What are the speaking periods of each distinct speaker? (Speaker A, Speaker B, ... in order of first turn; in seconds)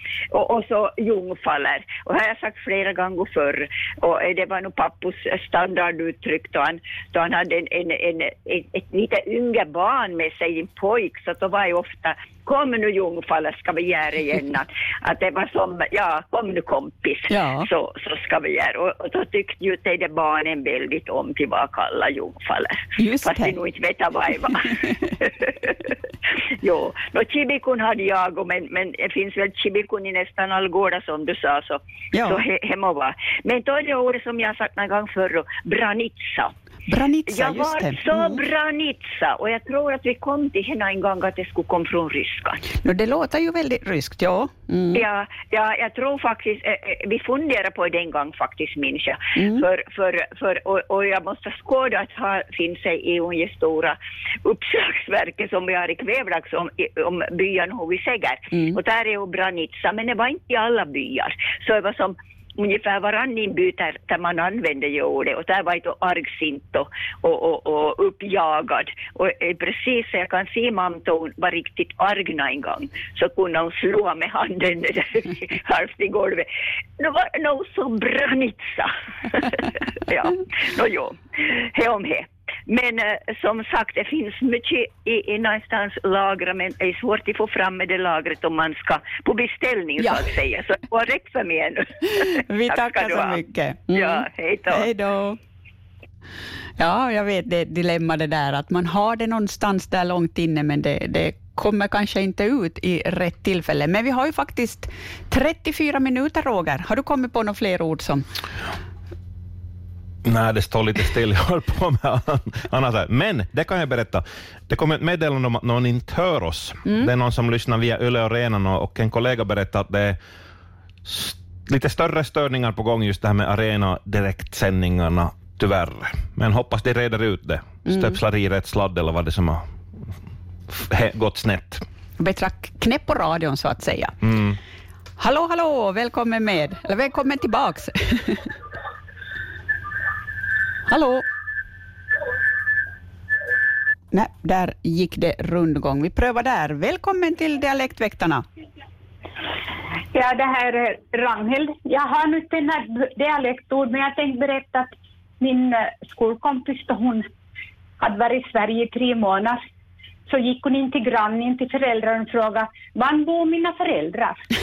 Speaker A: 0.3-25.9, 26.6-36.5, 37.3-42.6, 44.9-76.5, 77.0-93.4, 93.9-94.9
Speaker B: 17.3-17.7, 23.0-23.6, 32.1-32.4, 36.9-38.4, 42.8-45.0, 49.4-49.6, 58.5-58.8, 90.0-90.3, 92.3-95.4, 96.8-108.2, 127.9-128.2, 132.2-134.2, 135.2-138.5, 140.9-141.2, 144.1-148.4
Speaker C: 110.2-120.2, 121.0-129.6, 130.7-131.8, 134.2-134.6
Speaker D: 150.1-157.3, 158.0-159.6, 160.3-164.4